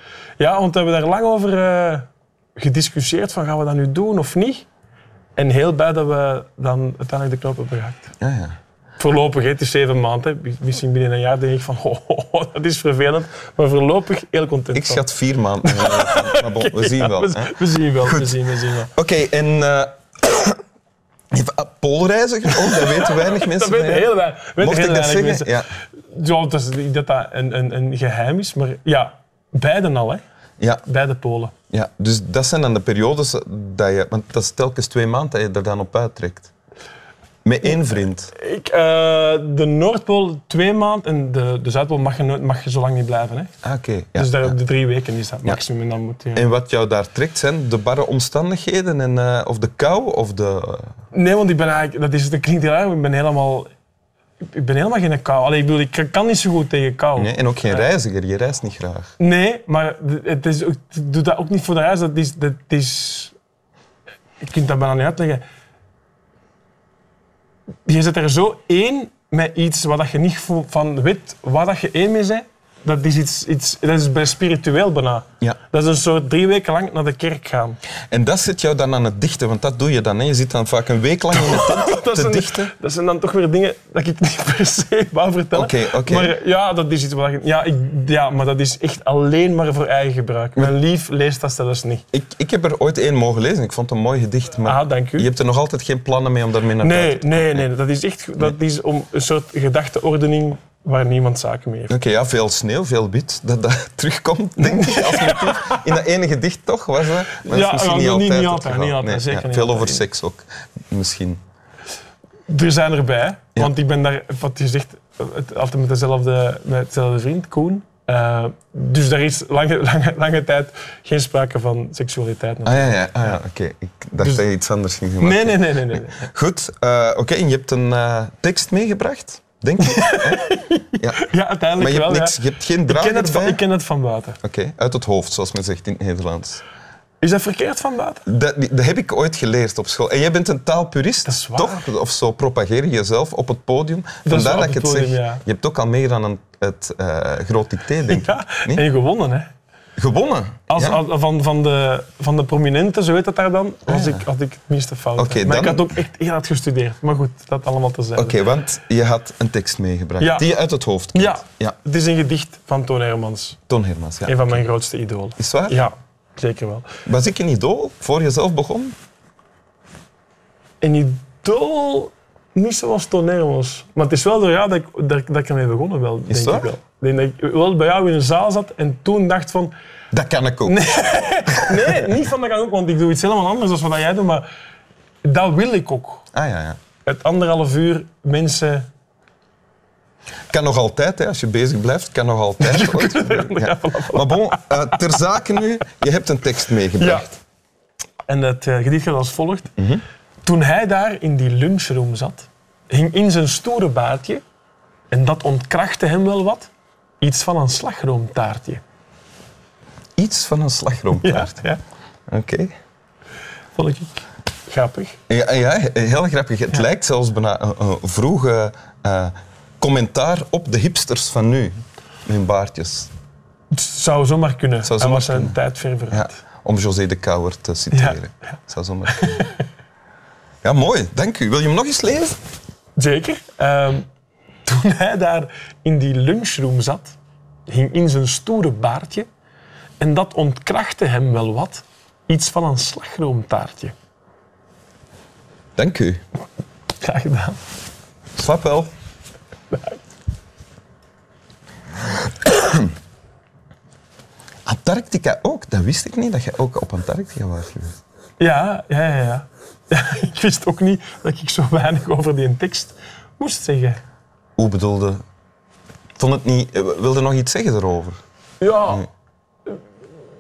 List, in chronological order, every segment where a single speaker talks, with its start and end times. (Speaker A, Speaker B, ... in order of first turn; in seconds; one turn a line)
Speaker A: 0.4-4.7
Speaker A: 5.4-8.1
Speaker B: 8.2-8.6
Speaker A: 9.0-15.0
Speaker B: 14.7-20.6
Speaker A: 15.6-18.9
Speaker B: 21.3-24.1
Speaker A: 22.5-30.2
Speaker B: 24.6-25.7
Speaker A: 30.8-31.5
Speaker B: 31.7-36.5
Speaker B: 37.4-38.3
Speaker A: 37.6-43.5
Speaker B: 43.6-44.5
Speaker A: 44.1-46.5
Speaker B: 46.3-50.9
Speaker A: 51.1-53.7
Speaker A: 54.5-57.9
Speaker B: 57.1-59.1
Speaker A: 59.2-63.3
Speaker A: 64.4-65.4
Speaker A: 67.8-77.8
Speaker B: 78.1-82.7
Speaker A: 81.3-92.0
Speaker B: 85.5-86.3
Speaker B: 92.1-97.7
Speaker A: 94.6-95.3
Speaker A: 96.8-101.9
Speaker B: 101.9-111.4
Speaker A: 104.6-105.8
Speaker A: 107.3-110.0
Speaker A: 112.5-123.3
Speaker B: 122.6-131.2
Speaker A: 124.2-124.4
Speaker A: 125.2-126.3
Speaker A: 129.8-134.4
Speaker B: 131.8-133.6
Speaker B: 134.4-136.6
Speaker A: 137.2-138.2
Speaker B: 138.2-148.8
Speaker A: 141.2-141.9
Speaker A: 144.2-145.4
Speaker A: 148.1-149.5
Speaker B: 150.0-151.0
Speaker A: 150.7-158.4
Speaker B: 153.9-154.2
Speaker B: 155.2-155.9
Speaker B: 158.2-161.8
Speaker A: 160.2-160.5
Speaker A: 161.1-163.6
Speaker B: 163.7-164.6
Speaker A: 164.2-166.9
Speaker B: 165.4-165.8
Speaker B: 167.1-168.9
Speaker A: 170.8-179.7
Speaker B: 176.3-176.7
Speaker B: 180.1-180.9
Speaker A: 180.7-184.4
Speaker B: 181.5-182.1
Speaker A: 185.2-186.2
Speaker B: 186.3-186.8
Speaker A: 187.0-188.8
Speaker B: 190.5-197.4
Speaker A: 192.6-195.0
Speaker A: 197.0-197.2
Speaker A: 198.3-199.7
Speaker A: 200.4-204.4
Speaker A: 205.1-206.7
Speaker A: 207.2-208.8
Speaker B: 210.2-211.7
Speaker A: 211.2-211.8
Speaker B: 212.3-212.7
Speaker A: 213.8-215.2
Speaker B: 215.3-221.7
Speaker B: 222.2-223.1
Speaker A: 223.7-226.3
Speaker B: 224.8-225.6
Speaker B: 226.1-229.4
Speaker A: 227.9-228.2
Speaker A: 229.1-229.6
Speaker B: 230.6-232.4
Speaker A: 233.0-234.0
Speaker A: 234.6-239.3
Speaker A: 240.0-243.9
Speaker B: 245.8-246.2
Speaker A: 247.0-247.6
Speaker B: 248.3-248.9
Speaker A: 249.7-250.0
Speaker B: 252.4-252.9
Speaker B: 254.7-257.9
Speaker A: 258.4-264.0
Speaker B: 264.6-265.2
Speaker B: 266.2-268.2
Speaker A: 268.6-269.1